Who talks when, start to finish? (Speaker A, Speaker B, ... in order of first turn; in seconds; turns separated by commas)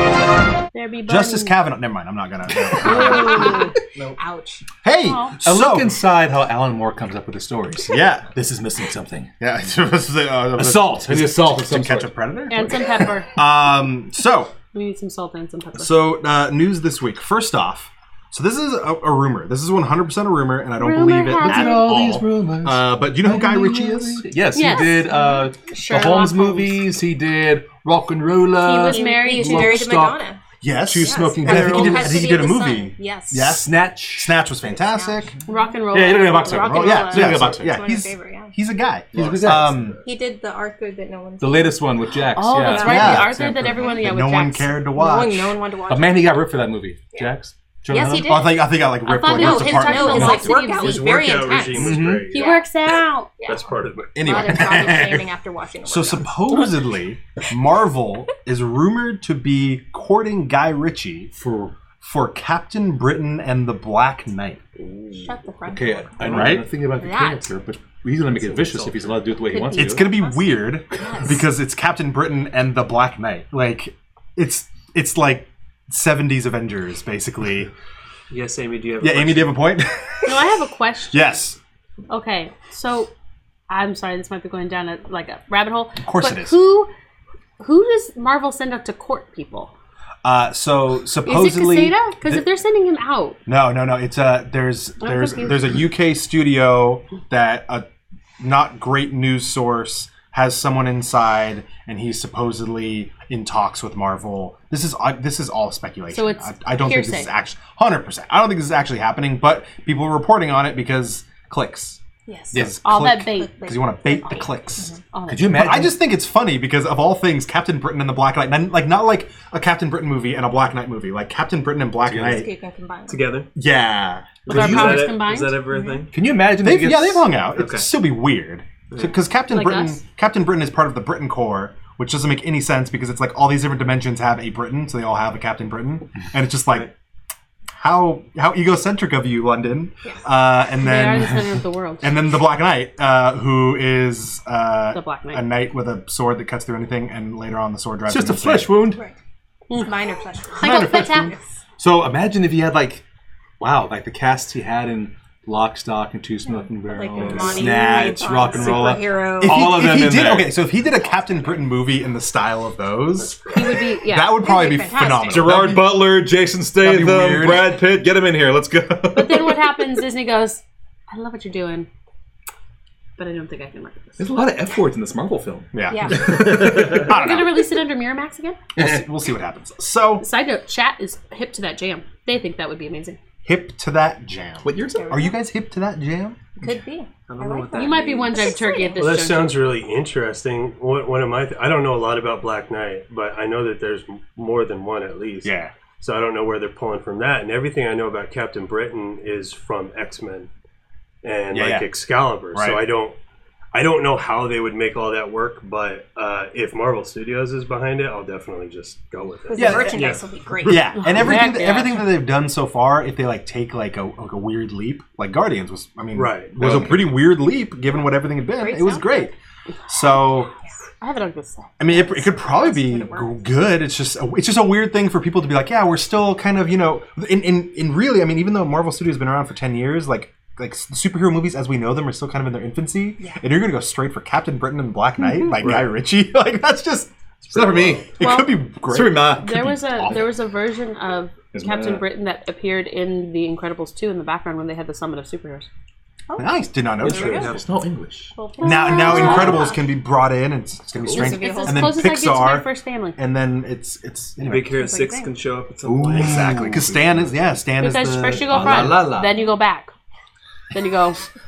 Speaker A: 0.7-1.6, Speaker B: 1.1-4.2, Speaker A: 2.8-3.7, Speaker C: 2.8-4.7, Speaker B: 4.8-6.0, Speaker A: 5.0-5.4, Speaker D: 5.4-9.3, Speaker B: 7.9-8.3, Speaker B: 9.4-14.5, Speaker D: 10.6-12.1, Speaker A: 12.5-13.3, Speaker A: 14.7-15.9, Speaker B: 15.8-24.3, Speaker A: 20.8-22.0, Speaker D: 21.4-30.2, Speaker A: 24.5-26.8, Speaker A: 28.6-29.9, Speaker C: 28.9-30.4, Speaker B: 30.6-35.3, Speaker D: 30.9-32.2, Speaker C: 31.0-33.6, Speaker D: 33.4-34.4, Speaker C: 34.6-35.3, Speaker A: 35.5-37.3, Speaker D: 35.9-37.8, Speaker B: 36.6-40.0, Speaker C: 36.8-38.5, Speaker D: 39.1-40.0, Speaker C: 40.0-41.9, Speaker D: 41.4-43.7, Speaker A: 42.3-44.8, Speaker B: 42.7-45.6, Speaker C: 45.0-46.6, Speaker D: 45.9-48.4, Speaker C: 47.9-48.6, Speaker B: 48.0-50.6, Speaker A: 49.0-51.1, Speaker C: 49.2-52.7, Speaker E: 50.6-52.5, Speaker D: 51.7-52.3, Speaker A: 52.3-53.3, Speaker C: 53.4-53.6, Speaker E: 53.5-54.2, Speaker B: 54.1-55.3, Speaker C: 54.2-56.6, Speaker B: 55.9-61.3, Speaker D: 61.3-61.8, Speaker B: 62.0-64.6, Speaker C: 65.2-67.5, Speaker D: 65.7-70.1, Speaker B: 66.2-66.7, Speaker C: 69.5-71.4, Speaker B: 69.7-77.7, Speaker F: 78.3-79.6, Speaker B: 79.0-80.3, Speaker A: 80.2-81.3, Speaker B: 81.1-81.6, Speaker A: 82.1-83.1, Speaker A: 83.7-86.9, Speaker B: 86.0-86.6, Speaker A: 87.6-89.7, Speaker B: 90.2-92.4, Speaker A: 91.2-93.4, Speaker B: 93.5-97.8, Speaker A: 95.0-95.8, Speaker B: 98.4-112.0, Speaker A: 106.1-107.3, Speaker C: 112.3-112.7, Speaker B: 112.5-115.0, Speaker A: 112.8-113.5, Speaker C: 113.3-115.0, Speaker A: 115.1-115.7, Speaker D: 115.3-116.0, Speaker B: 115.5-122.5, Speaker D: 122.1-122.4, Speaker C: 122.2-123.3, Speaker F: 123.1-123.5, Speaker B: 123.5-125.1, Speaker A: 124.5-125.6, Speaker F: 124.5-126.1, Speaker C: 125.7-126.1, Speaker D: 126.1-127.4, Speaker B: 126.6-136.9, Speaker F: 127.6-127.9, Speaker A: 129.5-130.0, Speaker B: 137.8-141.4, Speaker A: 140.8-142.2, Speaker B: 142.0-148.8, Speaker A: 144.9-145.5, Speaker D: 148.1-149.0, Speaker C: 149.7-151.2, Speaker A: 150.6-151.4, Speaker D: 150.6-153.0, Speaker D: 153.6-160.6, Speaker C: 156.5-159.7, Speaker F: 157.2-157.5, Speaker B: 157.6-158.7, Speaker B: 159.4-166.2, Speaker E: 163.2-163.8, Speaker A: 163.5-164.5, Speaker C: 164.3-165.6, Speaker D: 165.3-169.8, Speaker B: 166.8-167.8, Speaker A: 169.1-171.9, Speaker A: 173.2-174.2, Speaker D: 174.2-177.1, Speaker B: 175.7-177.7, Speaker C: 175.9-176.5, Speaker A: 176.9-178.6, Speaker D: 178.8-179.1, Speaker B: 178.8-180.2, Speaker A: 180.2-183.2, Speaker B: 183.4-186.4, Speaker D: 184.6-185.2, Speaker C: 184.8-185.4, Speaker C: 186.6-189.0, Speaker F: 187.3-188.4, Speaker A: 187.7-189.7, Speaker E: 189.0-200.5, Speaker B: 195.4-195.7, Speaker E: 201.2-203.2, Speaker B: 201.5-201.9, Speaker B: 202.5-202.8, Speaker E: 203.7-210.8, Speaker C: 209.5-211.0, Speaker B: 209.6-219.3, Speaker A: 210.9-212.1, Speaker E: 216.1-216.6, Speaker D: 216.6-217.2, Speaker C: 218.6-219.3, Speaker B: 219.9-220.5, Speaker A: 219.9-220.2, Speaker A: 221.0-221.8, Speaker B: 221.8-239.4, Speaker C: 221.9-223.4, Speaker D: 237.5-240.3, Speaker C: 238.2-238.5, Speaker A: 239.4-245.7, Speaker D: 241.5-242.1, Speaker C: 246.3-247.6, Speaker B: 246.4-247.5, Speaker D: 247.0-248.3, Speaker F: 247.1-247.6, Speaker A: 248.4-249.8, Speaker C: 248.6-249.8, Speaker B: 248.6-254.8, Speaker C: 251.1-252.1, Speaker A: 251.1-253.2, Speaker F: 254.4-256.9, Speaker C: 254.8-255.3, Speaker D: 255.8-257.4, Speaker B: 256.2-259.1, Speaker A: 257.8-259.9, Speaker D: 258.5-259.4, Speaker A: 260.7-261.3